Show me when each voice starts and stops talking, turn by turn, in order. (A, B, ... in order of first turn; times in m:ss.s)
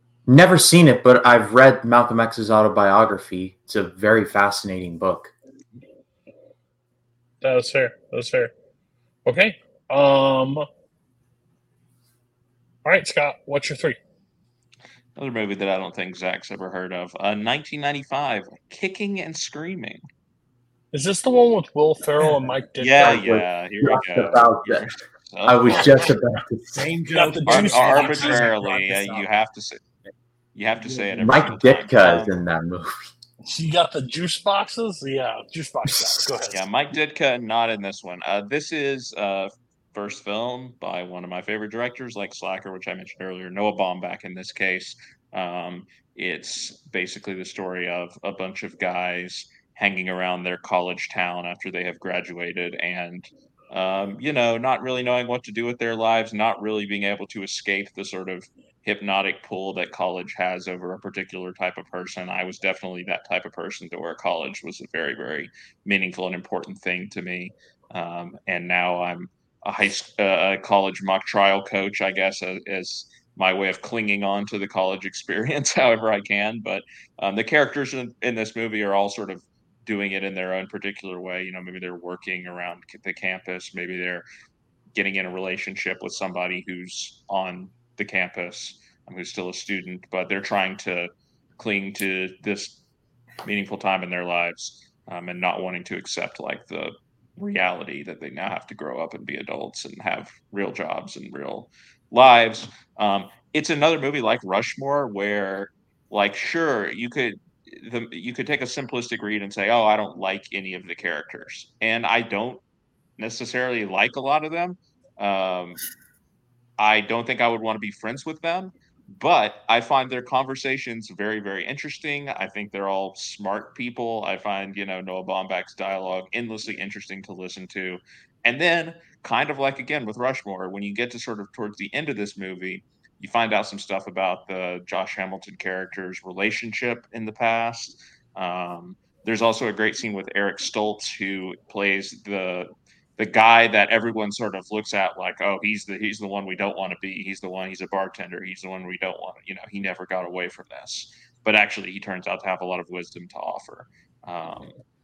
0:00.3-0:05.3 A
0:07.4-0:08.5 B
0:09.2-0:10.7 B
0:12.8-0:14.0 B
0:15.2-0:20.0 C
0:20.9-0:23.2 B
0:22.8-0:26.1 C
0:23.0-0:24.9 A
0:25.5-0:26.9 A
0:26.7-0:29.3 D
0:27.1-0:28.5 B
0:27.5-0:29.8 C
0:30.6-0:32.4 C
0:30.8-0:31.1 D
0:31.2-0:33.0 A
0:33.4-0:36.6 B
0:36.5-1:24.2 C
1:24.9-1:32.8 C
1:33.4-1:52.6 C
1:53.2-1:55.8 C
1:56.8-2:34.8 C